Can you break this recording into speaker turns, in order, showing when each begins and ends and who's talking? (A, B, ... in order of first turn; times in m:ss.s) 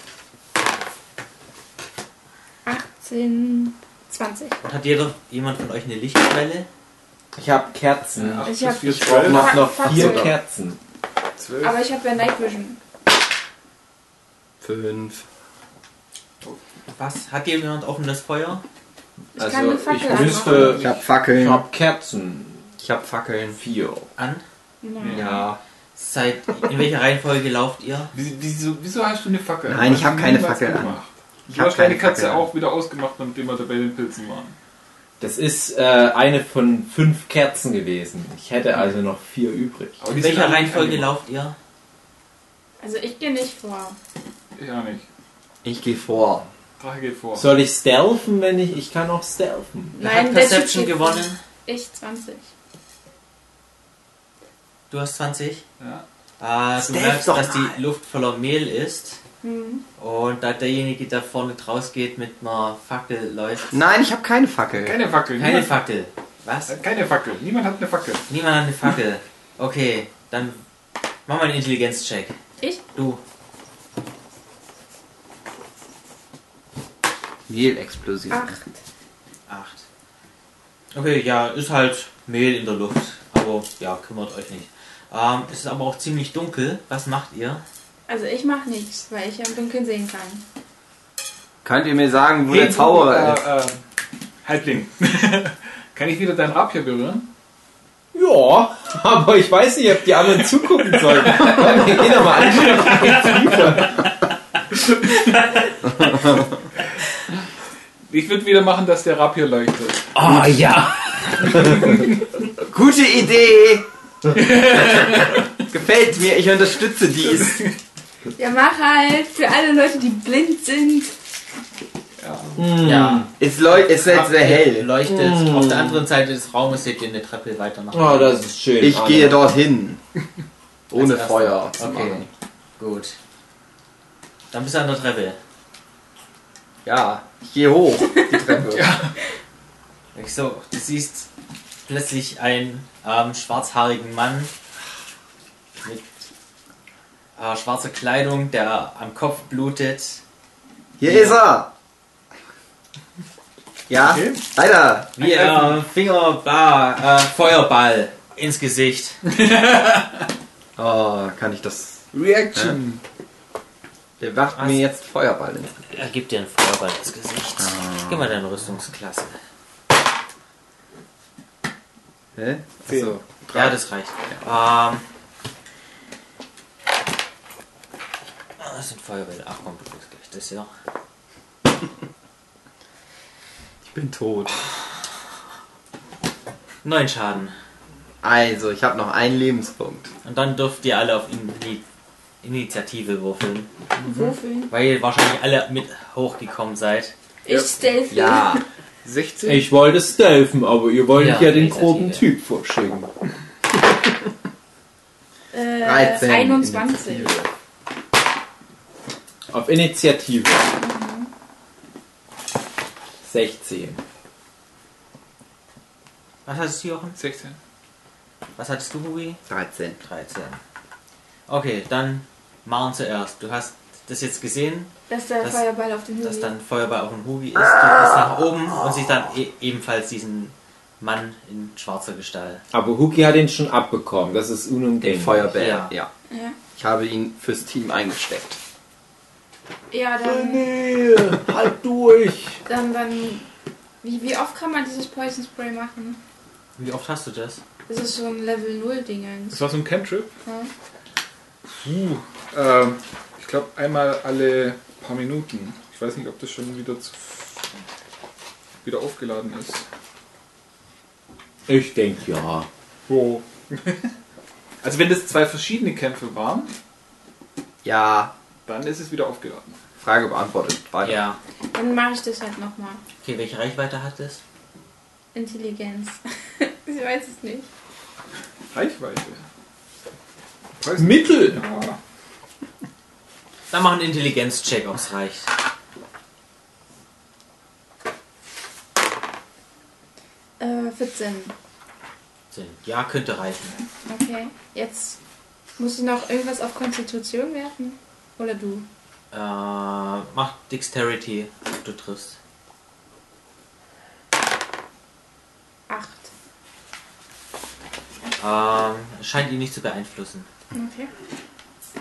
0:02.7-0:04.6 A
0:04.6-0:06.7 B
0:07.4-0:10.8 C
0:08.2-0:09.6 D
0:08.4-0:10.3 A
0:09.6-0:10.3 E
0:11.4-0:11.8 D
0:11.6-0:12.8 A
0:14.6-0:15.2 E
0:17.0-0:18.6 B
0:19.4-0:20.8 A
0:19.4-0:22.7 C
0:20.5-0:21.0 D
0:20.5-0:21.6 E
0:22.8-0:23.6 E
0:23.5-0:24.1 C
0:24.2-0:24.4 B
0:24.8-0:25.5 A
0:25.0-0:25.3 D
0:25.1-0:25.6 E
0:26.0-0:28.1 B
0:28.1-0:34.6 D
0:29.7-0:31.0 E
0:31.5-0:32.5 E
0:35.2-0:40.0 C
0:40.0-0:41.1 D
0:40.1-0:41.6 B
0:42.8-0:44.0 A
0:44.6-0:45.1 D
0:45.6-0:46.5 E
0:46.8-0:47.5 D
0:47.4-0:49.9 C
0:50.0-0:52.5 A
0:50.0-0:51.4 B
0:54.9-0:55.6 B
0:55.8-0:56.0 D
0:56.4-0:59.2 B
0:56.8-0:57.8 C
0:59.4-0:59.8 A
1:00.0-1:03.7 B
1:03.7-1:05.0 E
1:04.8-1:05.8 D
1:05.4-1:06.8 B
1:06.7-1:08.3 D
1:08.3-1:10.6 B
1:11.3-1:12.4 B
1:13.0-1:13.2 B
1:17.5-1:18.6 E
1:18.3-1:18.7 A
1:19.5-1:19.9 B
1:20.9-1:27.6 B
1:28.1-1:30.4 A
1:31.6-1:33.4 E
1:32.5-1:33.8 D
1:34.4-1:37.3 D
1:38.1-1:44.1 C
1:40.8-1:43.8 D
1:45.3-1:45.6 B
1:45.8-1:46.6 E
1:48.1-1:50.2 D
1:50.2-1:52.0 C
1:51.5-1:52.1 D
1:52.6-1:57.6 E
1:54.3-1:55.5 D
1:57.3-1:57.7 D
1:58.4-2:01.1 A
2:02.2-2:02.7 D
2:02.6-2:03.3 C
2:02.8-2:08.5 B
2:03.3-2:04.9 E
2:05.0-2:06.0 C
2:07.9-2:09.5 C
2:08.8-2:10.0 E
2:10.9-2:12.3 E
2:10.9-2:12.3 B
2:12.8-2:13.2 B
2:14.5-2:15.4 B
2:16.8-2:19.0 E
2:18.7-2:19.2 D
2:20.1-2:21.3 B
2:21.9-2:24.5 B
2:27.4-2:30.2 B
2:31.0-2:31.7 E
2:31.0-2:31.4 B
2:33.9-2:35.2 E
2:34.0-2:34.4 D
2:35.2-2:39.2 B
2:35.3-2:35.7 D
2:39.3-2:40.3 D
2:40.8-2:42.8 E
2:42.1-2:43.0 D
2:44.2-2:46.0 E
2:44.6-2:44.9 B
2:45.9-2:49.4 B
2:47.6-2:48.4 E
2:52.4-2:53.8 E
2:52.9-2:53.2 D
2:53.5-2:55.0 B
2:58.6-3:00.7 B
3:03.9-3:04.6 E
3:06.8-3:07.6 B
3:08.2-3:10.1 E
3:10.2-3:11.8 B
3:12.4-3:13.7 B
3:14.0-3:14.4 E
3:14.0-3:14.7 A
3:14.7-3:17.1 B
3:17.4-3:18.6 A
3:18.1-3:18.6 E
3:19.0-3:19.7 D
3:19.5-3:23.1 C
3:21.1-3:22.3 B
3:25.5-3:27.4 A
3:25.8-3:27.5 E
3:29.5-3:30.7 C
3:30.8-3:31.3 A
3:33.2-3:34.0 C
3:36.5-3:37.2 B
3:37.2-3:37.6 D
3:38.6-3:39.4 B
3:39.5-3:40.0 E
3:40.0-3:40.6 B
3:41.5-3:45.6 B
3:45.1-3:46.5 A
3:46.2-3:52.6 B
3:47.7-3:48.9 E
3:52.7-3:55.5 C
3:55.0-3:56.1 E
3:55.6-3:55.9 B
3:56.3-3:56.6 A
3:56.8-3:58.6 E
3:59.9-4:00.7 A
4:00.2-4:02.6 C
4:02.7-4:03.4 A
4:04.0-4:06.2 A
4:06.8-4:07.6 B
4:07.9-4:09.6 A
4:09.5-4:10.3 D
4:10.4-4:10.7 A
4:11.7-4:17.6 D
4:18.8-4:19.8 D
4:21.7-4:22.7 C
4:23.1-4:24.1 D
4:24.8-4:26.7 D
4:27.8-4:28.3 E
4:28.7-4:29.8 D
4:30.0-4:31.2 E
4:31.0-4:31.4 B
4:31.7-4:33.0 A
4:33.2-4:34.4 B
4:35.3-4:37.7 A
4:38.7-4:39.4 D
4:40.8-4:42.0 D
4:41.0-4:41.6 C
4:43.7-4:45.5 B
4:50.6-4:51.5 A
4:52.5-4:53.8 B
4:54.1-4:55.2 A
4:55.8-4:58.9 A
4:59.3-5:02.4 B
5:05.9-5:06.3 A
5:08.4-5:10.5 B
5:10.7-5:11.1 A